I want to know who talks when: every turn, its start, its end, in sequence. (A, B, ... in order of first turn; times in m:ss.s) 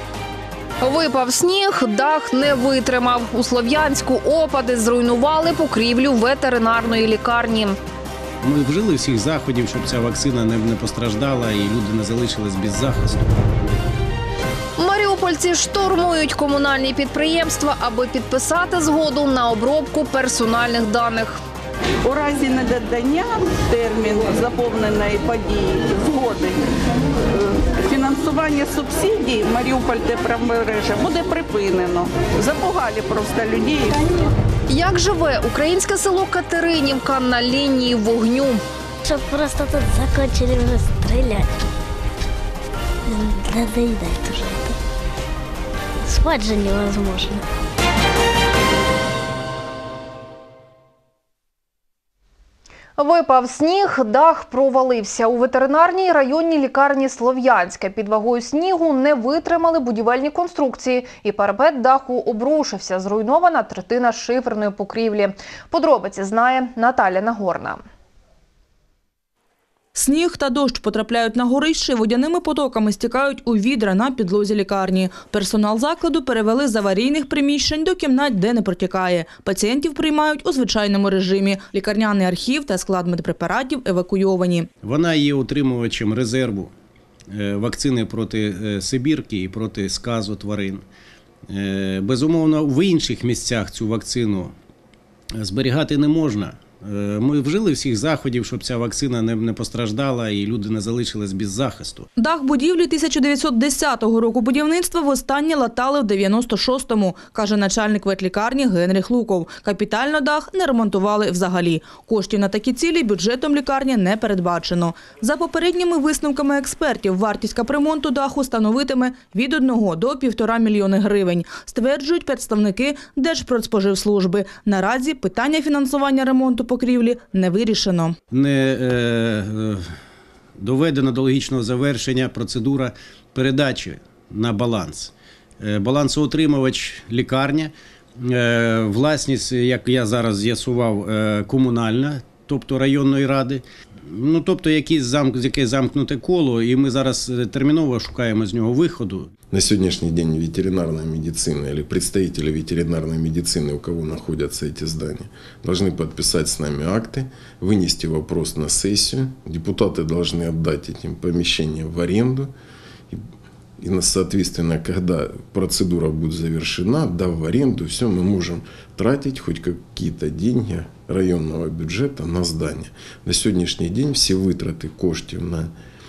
0:00.8-0:07.8 A
0:08.4-0:13.2 B
0:14.8-0:21.4 A
0:22.0-0:26.6 C
0:27.3-0:34.0 C
0:34.7-0:38.6 A
0:39.0-0:41.6 D
0:43.1-0:44.8 D
0:46.1-0:47.4 D
0:53.0-1:07.8 A
1:09.9-1:24.7 E
1:24.8-1:26.7 B
1:27.3-1:30.8 B
1:31.5-1:34.5 B
1:35.4-1:42.1 B
1:42.2-2:08.1 E
2:08.3-2:09.9 B
2:10.6-2:29.3 B
2:29.5-2:42.5 F
2:43.8-2:55.7 F